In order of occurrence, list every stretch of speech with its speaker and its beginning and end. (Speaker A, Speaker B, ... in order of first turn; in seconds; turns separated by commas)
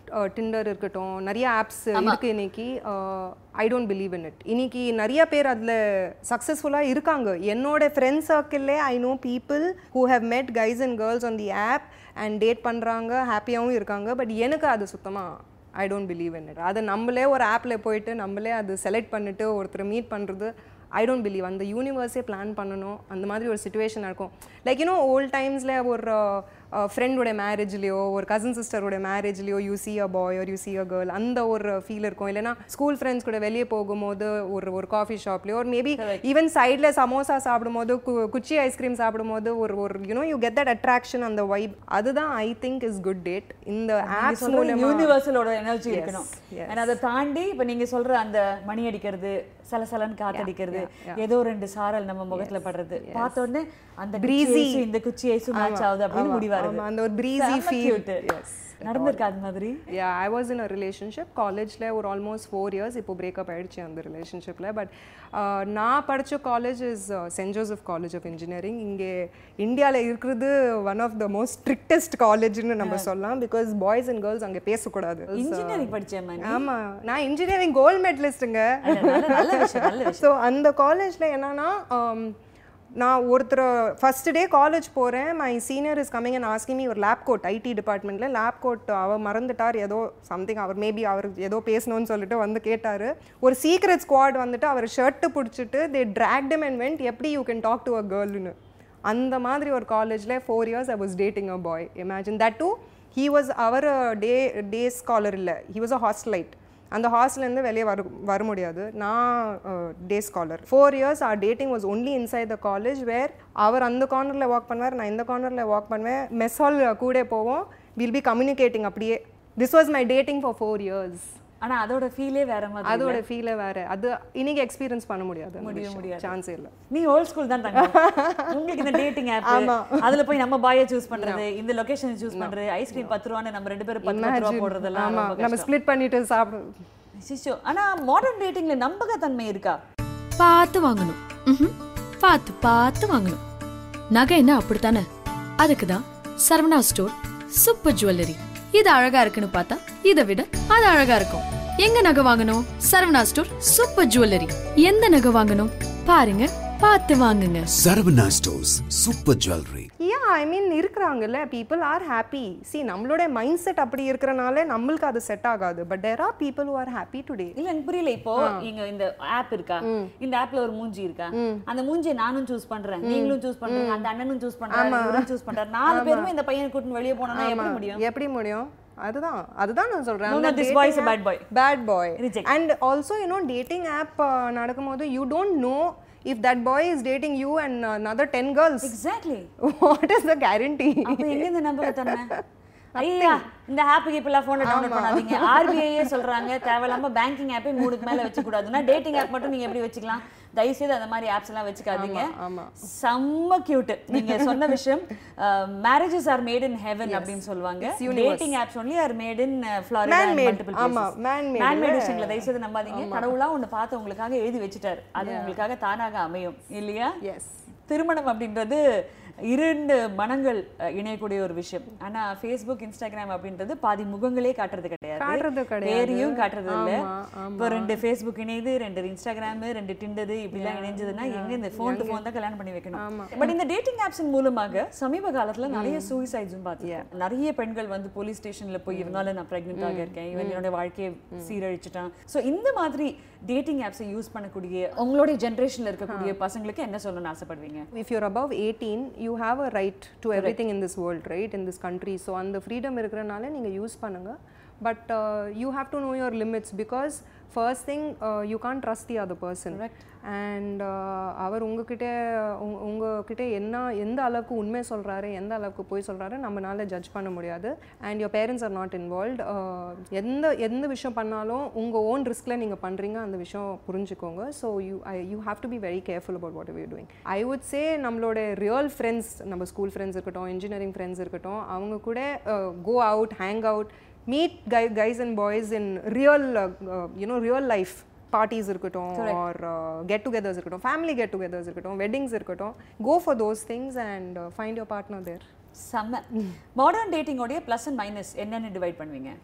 Speaker A: 0.1-45.1, Speaker B: 1.9-2.2, Speaker B: 36.0-36.2, Speaker B: 44.0-56.8, Speaker A: 45.9-47.0, Speaker A: 50.3-51.2, Speaker A: 52.3-53.4, Speaker A: 54.2-54.9, Speaker A: 55.5-59.3, Speaker B: 57.4-58.2, Speaker B: 58.8-59.8, Speaker A: 59.9-82.3, Speaker B: 72.8-73.1, Speaker B: 75.3-76.7, Speaker B: 78.8-80.3, Speaker A: 83.0-98.5, Speaker A: 99.1-121.3, Speaker B: 121.6-123.2, Speaker A: 122.8-126.7, Speaker B: 125.6-126.3, Speaker B: 126.9-135.7, Speaker A: 127.7-130.2, Speaker A: 131.1-131.4, Speaker A: 132.3-133.2, Speaker A: 134.0-136.8, Speaker B: 137.2-139.8, Speaker C: 140.4-143.4, Speaker C: 144.1-145.1, Speaker C: 145.6-157.7, Speaker D: 157.7-159.9, Speaker A: 160.0-167.6, Speaker B: 167.6-178.0, Speaker A: 168.4-168.7, Speaker A: 169.8-170.1, Speaker A: 171.3-171.6, Speaker A: 173.0-174.1, Speaker A: 174.7-175.3, Speaker A: 175.9-176.3, Speaker A: 177.2-189.0, Speaker B: 180.2-181.4, Speaker B: 182.2-182.5, Speaker B: 188.8-189.5, Speaker A: 189.6-192.4, Speaker B: 191.1-192.3, Speaker A: 192.9-193.4, Speaker B: 192.9-217.1, Speaker A: 194.6-196.5, Speaker A: 198.1-198.4, Speaker A: 201.9-202.8, Speaker A: 204.2-204.6, Speaker A: 207.0-208.6, Speaker A: 210.1-213.3, Speaker A: 215.2-215.6, Speaker A: 217.2-217.6, Speaker B: 217.9-218.8, Speaker B: 219.5-227.0, Speaker A: 225.2-228.0, Speaker B: 227.6-247.8, Speaker A: 230.5-232.2, Speaker A: 232.9-233.5, Speaker A: 235.7-236.2, Speaker A: 236.8-237.1, Speaker A: 238.9-240.6, Speaker A: 241.3-241.6, Speaker A: 246.1-246.3, Speaker A: 247.9-295.4, Speaker B: 259.7-260.0, Speaker B: 289.1-289.4, Speaker B: 295.7-299.3